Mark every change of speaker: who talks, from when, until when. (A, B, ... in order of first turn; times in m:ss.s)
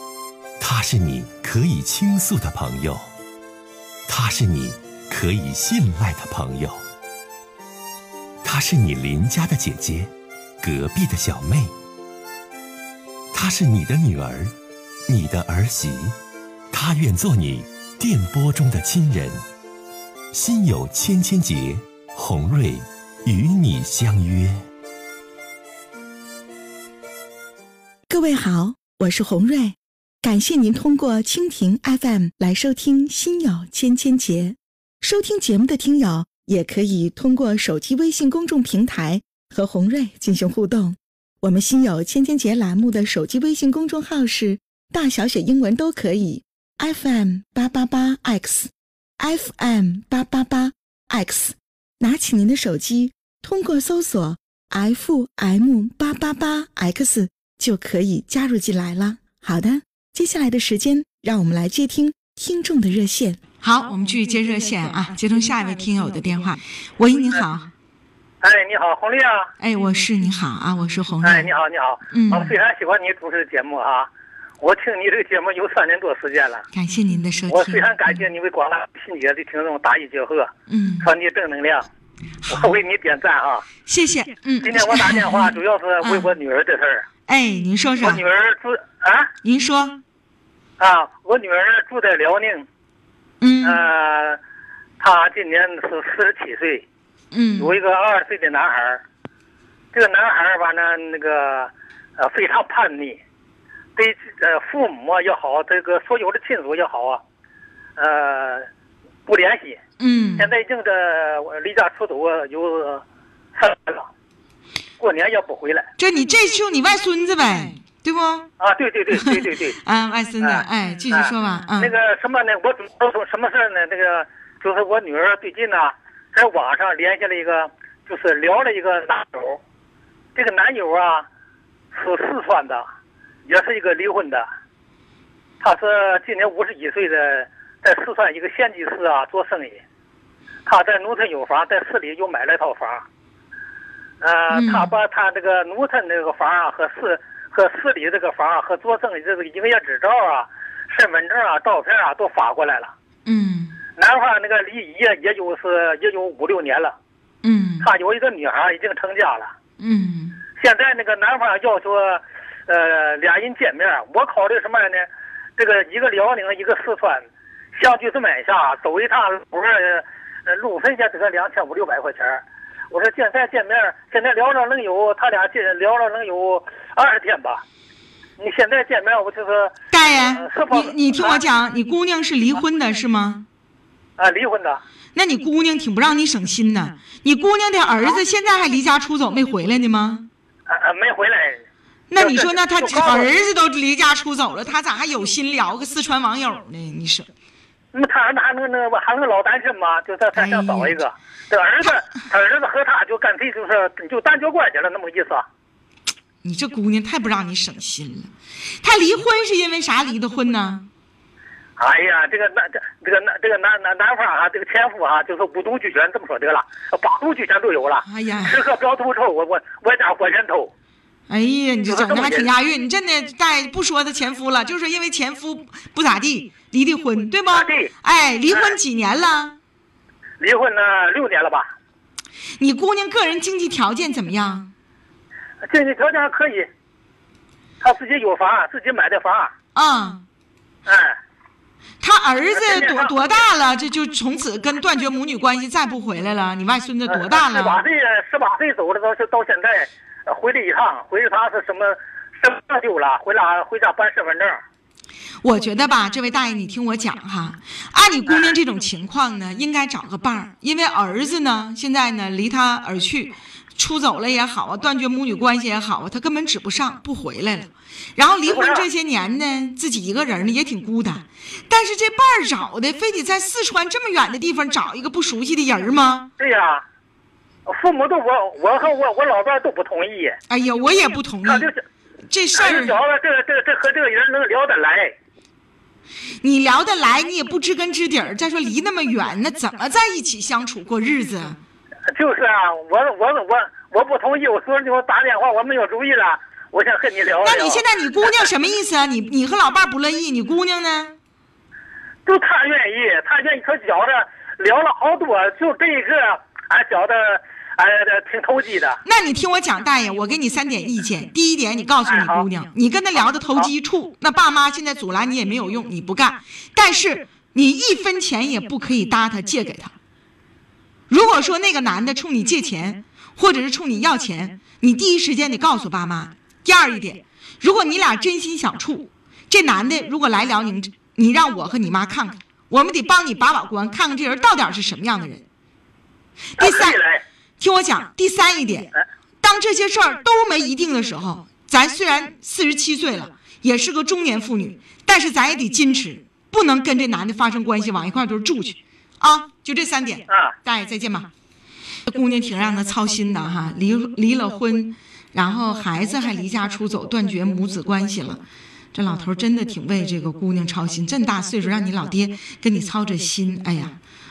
0:00.6-0:03.1 A
0:04.1-0:06.8 A
0:08.4-0:10.1 A
0:10.6-0:11.7 A
0:13.3-0:14.5 A
0:15.1-0:16.2 A
0:16.7-0:19.4 A
0:20.3-0:24.6 A
0:28.1-0:29.7 B
0:28.6-0:29.7 C
0:30.2-0:34.4 B
0:30.2-0:31.5 C
0:32.2-0:34.5 C
0:35.0-0:35.6 B
0:35.3-0:48.5 C
0:36.2-0:38.7 B
0:39.3-0:40.8 B
0:42.4-0:44.3 B
0:46.8-0:48.6 B
0:49.2-1:03.4 C
0:49.7-0:50.5 B
1:03.6-1:07.7 B
1:08.4-1:09.5 D
1:09.6-1:11.5 B
1:11.2-1:16.6 D
1:12.1-1:12.5 B
1:16.7-1:18.0 B
1:17.5-1:21.9 D
1:20.7-1:21.1 B
1:22.4-1:22.7 B
1:22.5-1:23.6 D
1:23.8-1:26.2 B
1:24.6-1:27.0 D
1:27.3-1:28.2 B
1:28.0-1:29.3 D
1:29.4-1:30.0 B
1:30.8-1:32.6 D
1:33.4-1:33.8 B
1:33.6-1:34.4 D
1:35.0-1:36.8 D
1:37.3-1:37.8 B
1:37.6-1:39.0 D
1:39.9-1:43.2 D
1:44.0-1:47.2 D
1:48.0-1:48.7 D
1:49.2-1:49.8 D
1:50.0-1:50.5 B
1:50.4-1:53.0 D
1:53.6-1:54.1 D
1:55.0-1:55.9 D
1:56.0-1:58.5 B
1:58.6-1:59.8 D
1:59.1-2:01.9 B
2:00.4-2:09.6 D
2:10.3-2:11.2 D
2:11.9-2:12.8 D
2:13.4-2:14.4 D
2:15.6-2:19.8 D
2:20.6-2:23.0 D
2:24.2-2:32.9 D
2:24.5-2:24.9 B
2:33.2-2:33.8 B
2:34.0-2:37.0 D
2:37.4-2:37.9 B
2:37.8-2:39.5 D
2:39.8-2:40.4 B
2:40.6-2:57.6 D
2:58.4-3:01.4 D
2:59.9-3:03.4 B
3:04.2-3:04.8 D
3:05.1-3:10.3 B
3:10.7-3:11.6 D
3:12.1-3:17.3 B
3:12.2-3:13.3 D
3:17.9-3:25.4 D
3:20.3-3:21.0 B
3:26.4-3:28.3 B
3:28.8-3:30.9 B
3:31.8-3:40.7 D
3:38.0-3:38.5 B
3:41.3-3:49.6 B
3:41.9-3:42.5 D
3:47.5-3:47.9 D
3:50.4-3:51.7 D
3:52.6-3:54.7 B
3:55.7-3:56.7 D
3:57.8-3:59.5 D
3:59.7-4:00.2 B
4:00.8-4:01.2 D
4:02.0-4:07.8 B
4:02.5-4:03.3 D
4:07.1-4:14.6 D
4:15.4-4:36.3 B
4:18.3-4:18.6 D
4:28.4-4:28.9 D
4:36.4-4:36.8 D
4:37.7-4:40.4 D
4:40.5-4:41.7 B
4:41.4-4:41.8 D
4:42.3-4:43.0 B
4:42.5-4:45.1 D
4:46.4-4:51.6 B
4:52.1-4:58.2 D
4:57.4-5:01.1 B
5:02.2-5:09.0 D
5:09.0-5:19.9 B
5:12.0-5:12.5 D
5:13.4-5:13.7 D
5:21.1-5:35.4 B
5:36.6-5:37.0 B
5:36.6-5:37.2 D
5:37.6-5:51.3 B
5:50.3-5:50.6 D
5:52.0-6:04.0 B